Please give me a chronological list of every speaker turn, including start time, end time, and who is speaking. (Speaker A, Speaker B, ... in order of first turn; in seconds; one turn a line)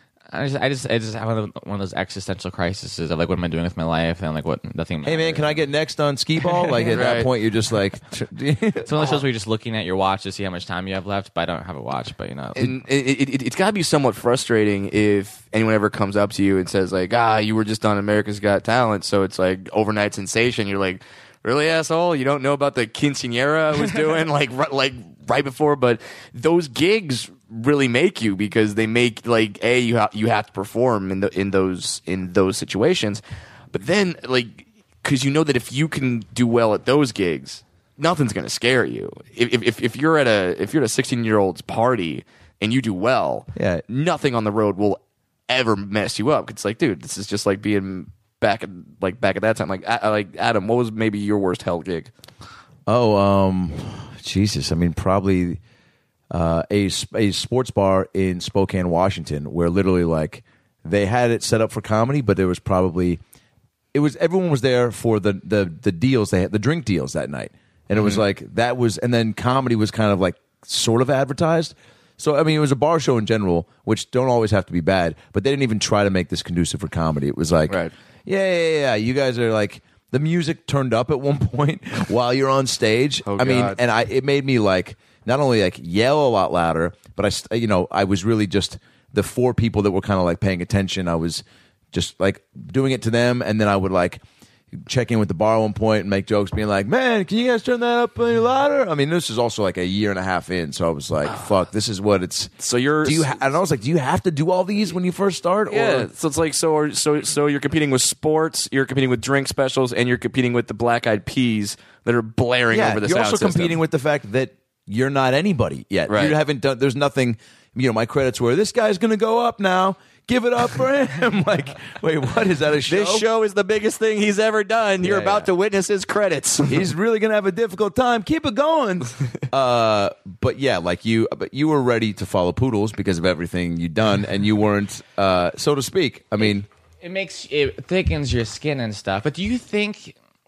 Speaker A: 0.3-5.6
Speaker B: 5.0-8.9
Speaker A: 6.4-7.2
Speaker C: 6.9-7.3
Speaker A: 8.8-12.7
Speaker C: 12.6-33.2
Speaker C: 33.7-52.1
Speaker B: 43.5-43.8
Speaker B: 52.9-55.6
Speaker B: 56.3-63.2
Speaker B: 63.9-94.2
Speaker C: 83.3-83.8
Speaker B: 94.7-106.1
Speaker C: 102.6-103.5
Speaker C: 105.7-113.8
Speaker B: 112.7-123.3
Speaker C: 116.1-116.4
Speaker C: 122.9-126.9
Speaker B: 125.0-125.5
Speaker B: 126.7-136.7
Speaker A: 136.4-140.2